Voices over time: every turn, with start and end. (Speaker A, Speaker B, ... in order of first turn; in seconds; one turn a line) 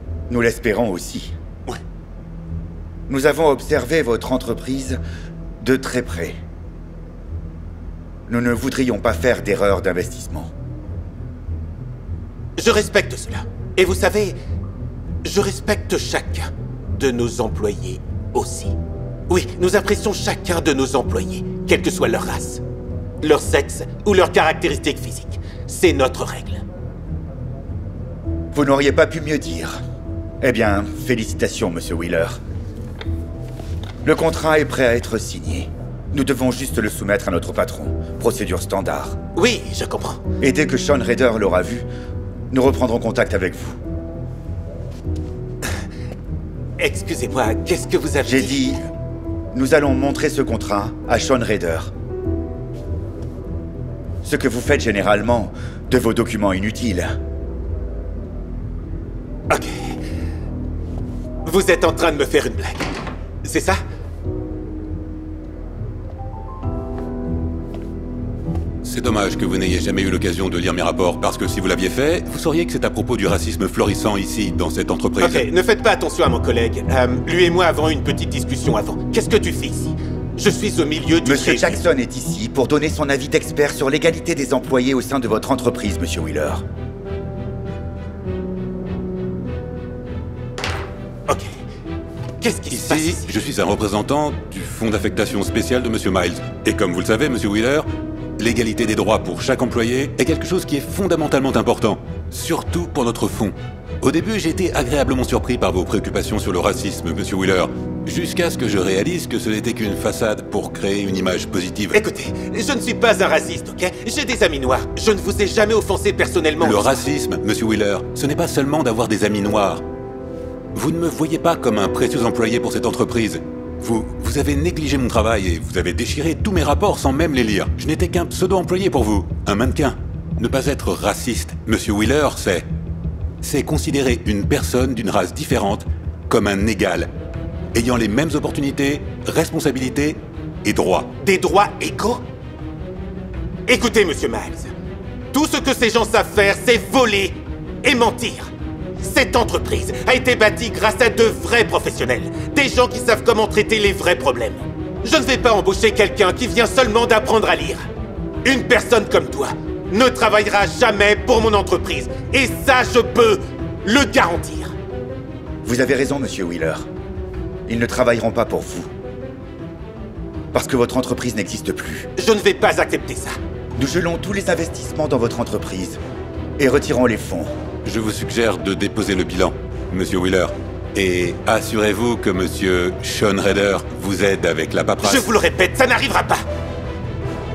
Speaker A: 0.3-1.3
Speaker A: 3.1-5.0
Speaker A: 5.6-6.4
Speaker A: 8.3-10.5
Speaker B: 12.6-14.4
Speaker B: 15.2-18.8
Speaker B: 19.3-22.6
Speaker B: 23.2-26.6
Speaker A: 28.5-29.8
Speaker A: 30.4-32.4
Speaker A: 34.0-39.2
Speaker B: 39.3-40.2
Speaker A: 40.4-41.9
Speaker A: 42.5-43.8
Speaker B: 46.8-48.8
Speaker A: 48.2-48.8
Speaker A: 49.5-51.9
Speaker A: 54.2-57.2
Speaker B: 59.5-60.0
Speaker B: 61.4-62.9
Speaker B: 63.4-63.8
Speaker C: 68.8-75.5
Speaker B: 75.2-81.8
Speaker A: 81.2-86.6
Speaker B: 91.3-91.5
Speaker B: 92.4-93.3
Speaker C: 92.7-97.9
Speaker C: 98.4-112.0
Speaker B: 111.9-117.0
Speaker C: 116.6-119.8
Speaker C: 120.7-132.7
Speaker C: 133.4-137.1
Speaker C: 137.7-141.1
Speaker B: 141.2-142.2
Speaker B: 143.7-144.7
Speaker B: 145.3-157.8
Speaker B: 158.4-164.7
Speaker A: 165.6-166.9
Speaker A: 167.7-168.9
Speaker A: 170.5-172.1
Speaker B: 172.2-173.3
Speaker A: 173.8-176.0
Speaker A: 176.6-177.5
Speaker C: 177.8-185.3
Speaker B: 185.0-186.4